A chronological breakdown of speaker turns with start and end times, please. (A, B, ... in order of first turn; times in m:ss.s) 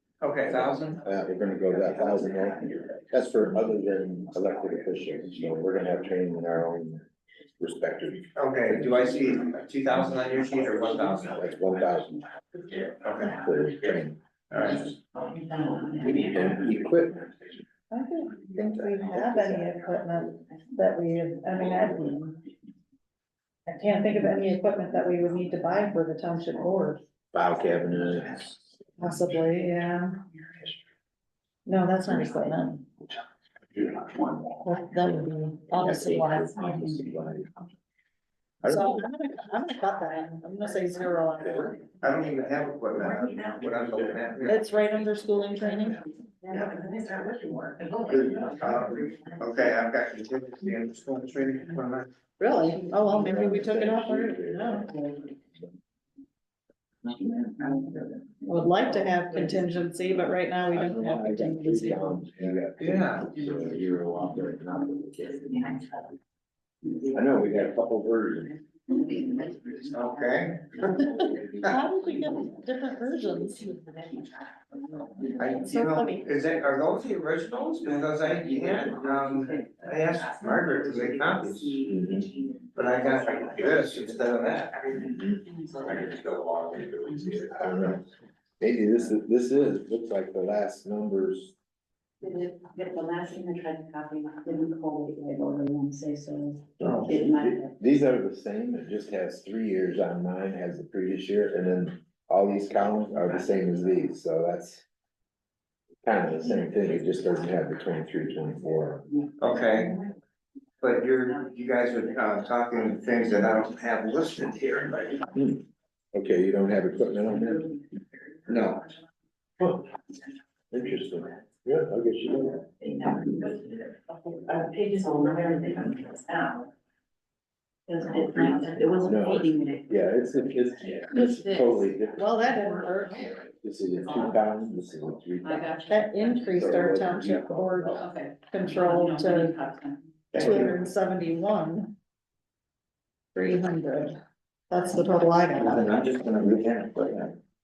0:00.2-0:01.0 A
0:00.5-0:07.0 B
0:07.6-0:09.1 B
0:08.4-0:11.4 A
0:11.3-0:12.2 B
0:13.0-0:13.4 A
0:13.2-0:14.2 B
0:14.5-0:14.9 A
0:15.3-0:15.8 C
0:16.0-0:17.3 B
0:17.9-0:22.3 D
0:19.1-0:19.7 B
0:23.7-0:27.0 D
0:27.3-0:28.6 B
0:29.0-0:30.2 D
0:31.7-0:32.9 D
0:34.6-0:36.8 D
0:35.8-0:37.6 B
0:38.6-0:39.0 B
0:38.6-0:41.9 D
0:41.9-0:44.6 A
0:44.5-0:46.1 D
0:46.5-0:48.5 C
0:48.2-0:52.1 A
0:52.4-0:54.9 D
0:53.2-0:54.9 B
0:58.4-1:02.2 D
1:00.7-1:05.8 B
1:02.8-1:03.3 A
1:07.0-1:08.6 B
1:09.7-1:11.6 A
1:11.6-1:13.7 D
1:13.7-1:14.3 C
1:15.4-1:21.8 A
1:15.7-1:16.2 D
1:21.9-1:22.3 B
1:22.8-1:25.0 A
1:25.1-1:25.4 B
1:25.7-1:27.4 A
1:27.3-1:28.0 B
1:28.6-1:31.6 B
1:32.2-1:36.7 C
1:36.8-1:44.8 B
1:36.8-1:37.1 A
1:46.0-1:49.1 B
1:49.4-1:50.0 A
1:50.8-1:55.3 A
1:55.3-1:57.7 B
1:58.5-1:58.9 A
1:59.6-1:59.9 B
2:00.7-2:02.6 B
2:03.2-2:03.7 C
2:04.3-2:06.6 C
2:07.9-2:09.6 C
2:08.9-2:12.4 B
2:12.2-2:13.3 D
2:13.6-2:15.8 B
2:15.9-2:19.6 D
2:16.5-2:18.0 B
2:19.7-2:20.0 C
2:20.3-2:20.7 A
2:20.3-2:22.0 D
2:23.4-2:24.2 D
2:24.7-2:25.9 D
2:25.6-2:27.4 A